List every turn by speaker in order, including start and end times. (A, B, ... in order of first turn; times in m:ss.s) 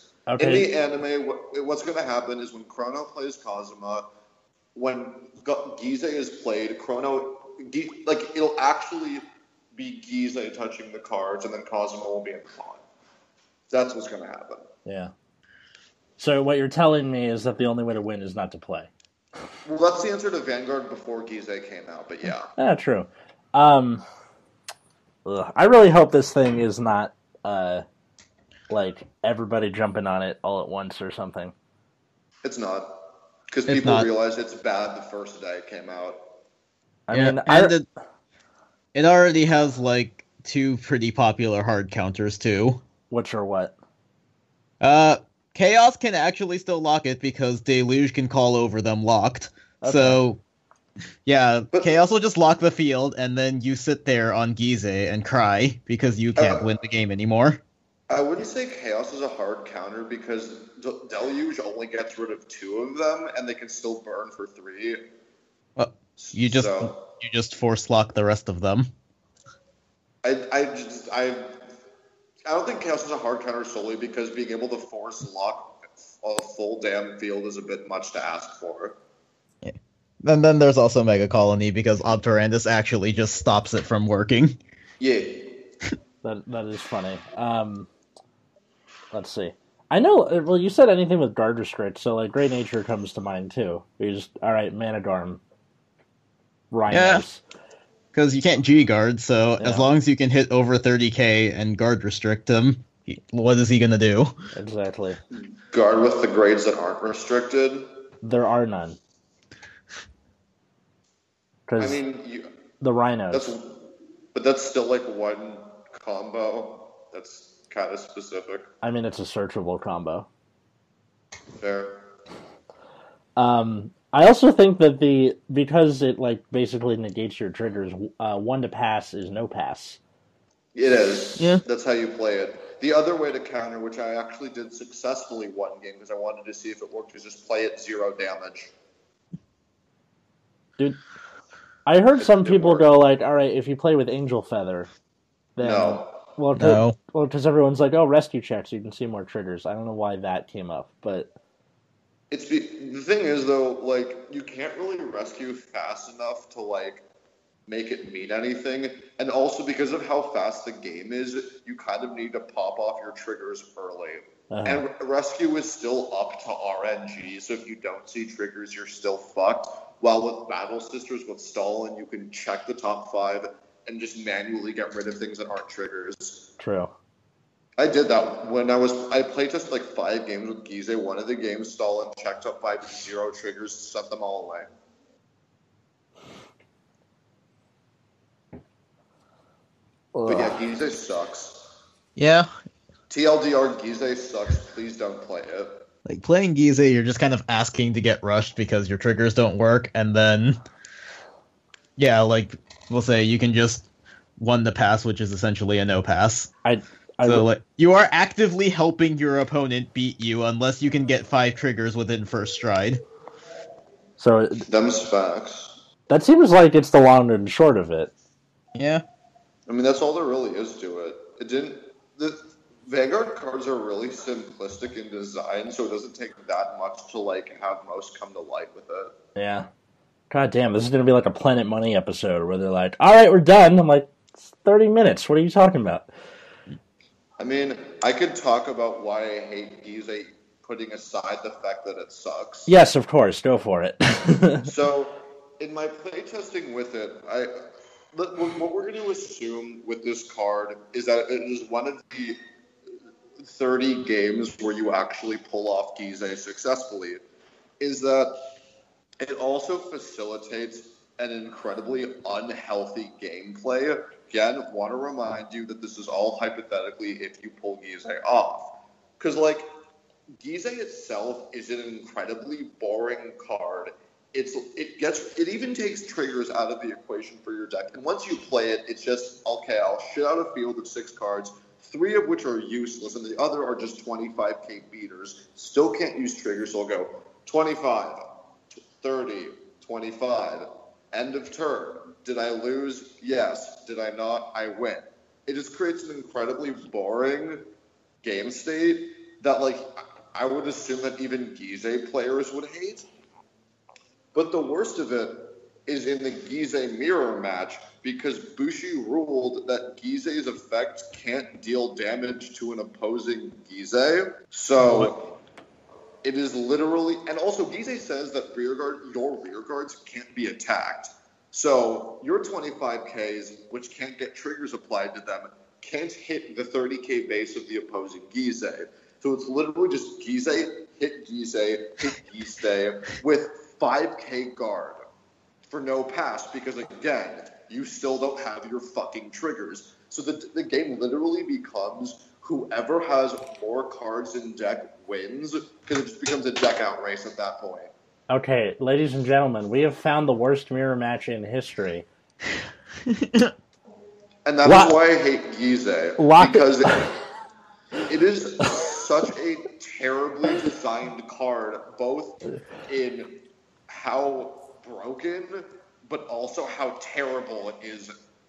0:00.3-0:00.7 A
0:00.4-0:04.1 B
0:04.7-0:12.8 B
0:13.7-0:14.7 B
0:14.8-0:15.1 A
0:16.2-0:18.9 A
0:19.6-0:22.5 B
0:22.6-0:24.0 A
0:25.2-0:27.8 A
0:28.7-0:31.5 A
0:32.4-0:36.2 B
0:33.7-0:34.1 C
0:37.1-0:37.8 A
0:37.1-0:37.8 C
0:38.9-0:42.8 C
0:43.1-0:43.7 A
0:44.8-0:50.4 C
0:49.8-0:50.2 A
0:51.2-0:57.6 C
0:56.4-0:56.7 B
0:58.1-1:05.1 B
1:05.8-1:08.9 C
1:06.2-1:07.0 B
1:10.2-1:11.6 B
1:12.4-1:19.0 B
1:19.6-1:24.6 C
1:25.0-1:25.6 B
1:26.2-1:27.9 A
1:29.1-1:35.4 A
1:36.7-1:37.4 A
1:36.9-1:37.2 C
1:38.1-1:44.4 C
1:39.6-1:39.9 A
1:44.5-1:45.2 A
1:45.3-1:47.9 B
1:48.2-1:49.0 A
1:51.7-1:52.0 A
1:51.8-1:52.5 B
1:52.8-1:53.5 A
1:53.3-1:58.7 B
1:58.8-2:00.3 A
2:01.6-2:02.1 B
2:03.4-2:10.0 A
2:10.7-2:18.7 B
2:21.9-2:24.9 A
2:22.2-2:22.9 B
2:25.6-2:31.3 A
2:25.6-2:26.2 B
2:26.6-2:27.0 C
2:32.3-2:37.0 B
2:37.7-2:56.5 B
2:44.5-2:44.8 A
2:56.6-2:56.9 A
2:57.8-3:04.7 B
3:10.1-3:10.6 A
3:10.2-3:11.7 B
3:12.2-3:12.5 C
3:13.1-3:15.8 B
3:16.1-3:20.6 C
3:22.0-3:23.9 C
3:24.4-3:26.5 C
3:26.6-3:27.5 A
3:27.2-3:33.0 C
3:34.2-3:34.7 A
3:34.7-3:35.8 B
3:36.1-3:38.1 A
3:38.7-3:39.0 C
3:39.7-3:49.1 B
3:49.4-3:49.7 A
3:50.3-3:56.1 A
3:57.4-4:02.7 B
4:02.7-4:04.7 A
4:04.6-4:12.4 B
4:13.4-4:17.2 B
4:17.8-4:18.4 B
4:19.2-4:29.7 B
4:30.4-4:48.3 B
4:49.0-4:57.7 B
4:58.2-5:03.1 B
5:04.3-5:15.4 B
5:16.2-5:35.1 B
5:35.7-5:47.9 B
5:48.3-5:52.1 A
5:53.1-5:53.5 C
5:54.4-5:57.2 B
5:54.6-5:55.0 A
5:56.2-5:57.1 A
5:58.0-6:08.1 B